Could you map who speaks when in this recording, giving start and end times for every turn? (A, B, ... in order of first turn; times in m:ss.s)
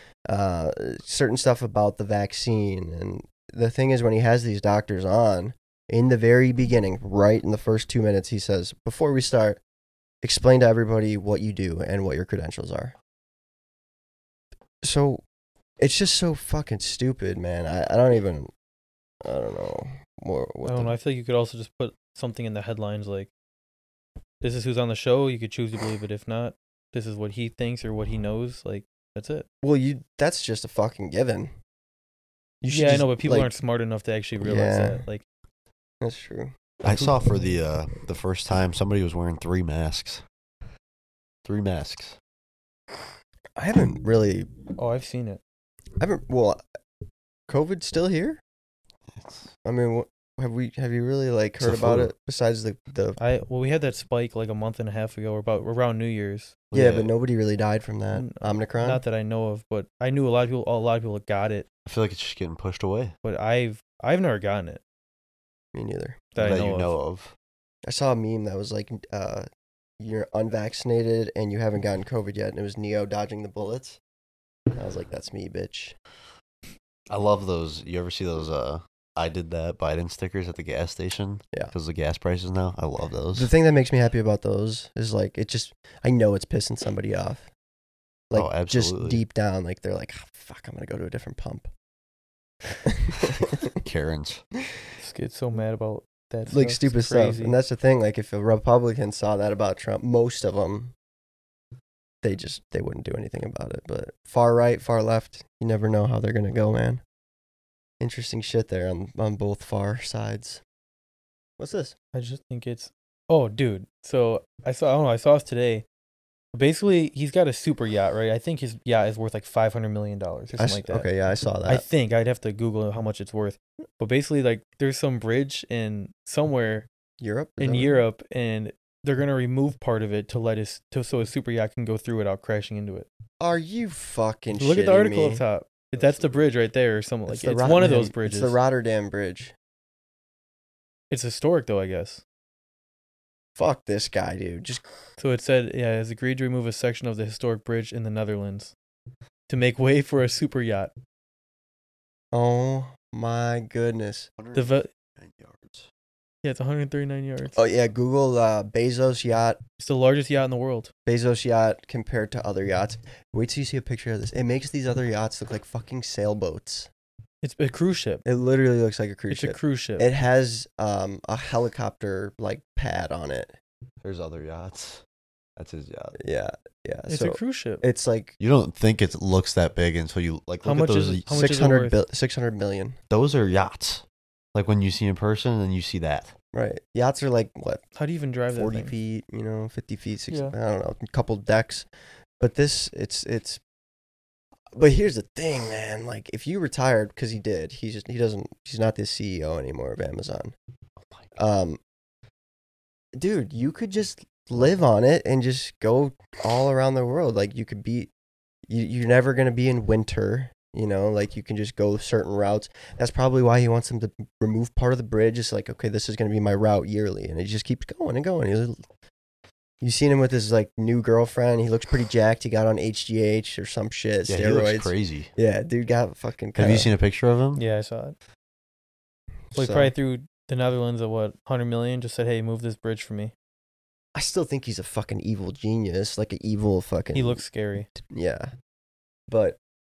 0:00.2-0:09.6 A
0:10.2-0:12.9 A
0:14.8-0:15.2 A
0:15.8-0:18.5 A
0:19.2-0:20.9 A
0:20.6-0:23.3 B
0:24.4-0:29.5 B
0:29.6-0:31.5 A
0:32.6-0:33.5 A
0:32.7-0:35.2 B
0:34.4-0:35.0 A
0:36.0-0:36.5 A
0:36.8-0:40.2 C
0:41.4-0:42.2 C
0:43.6-0:44.5 A
0:44.8-0:45.4 B
0:46.0-0:46.6 A
0:47.5-0:48.4 A
0:49.1-0:49.5 C
0:49.6-0:53.2 A
0:51.6-0:52.1 C
0:53.2-0:56.6 B
0:56.7-0:57.1 C
0:56.7-0:59.0 A
0:58.1-1:01.7 B
1:01.8-1:03.2 C
1:03.2-1:04.8 B
1:05.7-1:06.3 A
1:06.3-1:07.0 B
1:06.4-1:07.3 C
1:07.8-1:09.5 A
1:10.0-1:14.0 A
1:14.7-1:15.9 A
1:17.1-1:23.5 C
1:23.3-1:27.5 A
1:28.3-1:31.7 A
1:28.3-1:29.2 C
1:32.8-1:33.7 A
1:33.8-1:34.4 C
1:35.0-1:37.6 B
1:36.5-1:40.9 A
1:42.2-1:47.0 A
1:48.0-1:50.6 A
1:51.6-1:51.9 A
1:52.1-1:55.8 B
1:56.5-2:01.1 B
2:00.6-2:01.8 A
2:01.7-2:06.8 B
2:07.2-2:08.0 A
2:07.6-2:13.1 B
2:13.4-2:15.4 A
2:14.5-2:18.6 B
2:17.3-2:19.5 A
2:21.1-2:22.2 B
2:23.6-2:24.8 A
2:25.2-2:28.7 B
2:29.5-2:30.9 B
2:32.3-2:34.3 A
2:34.4-2:35.9 C
2:34.5-2:34.9 B
2:36.4-2:37.6 B
2:37.5-2:39.6 A
2:39.8-2:40.9 B
2:41.0-2:46.9 A
2:47.4-2:48.2 B
2:48.2-2:53.6 A
2:49.3-2:50.1 B
2:54.0-2:55.0 C
2:55.6-2:56.2 C
2:56.2-2:58.3 A
2:57.1-2:57.8 B
2:58.4-3:01.4 C
3:00.6-3:02.0 B
3:01.3-3:03.0 A
3:03.1-3:06.3 C
3:06.5-3:07.8 A
3:07.9-3:08.9 B
3:08.5-3:11.8 A
3:10.3-3:10.5 B
3:12.4-3:13.6 A
3:14.7-3:20.5 A
3:21.4-3:21.8 A
3:23.1-3:28.1 A
3:28.7-3:38.8 A
3:39.8-3:46.9 A
3:44.3-3:45.3 C
3:46.6-3:47.6 C
3:47.5-3:48.2 B
3:49.5-3:49.9 A
3:49.5-3:53.3 B
3:54.1-3:57.4 A
3:57.1-3:57.9 B
3:58.0-3:58.5 A
3:59.3-3:59.6 A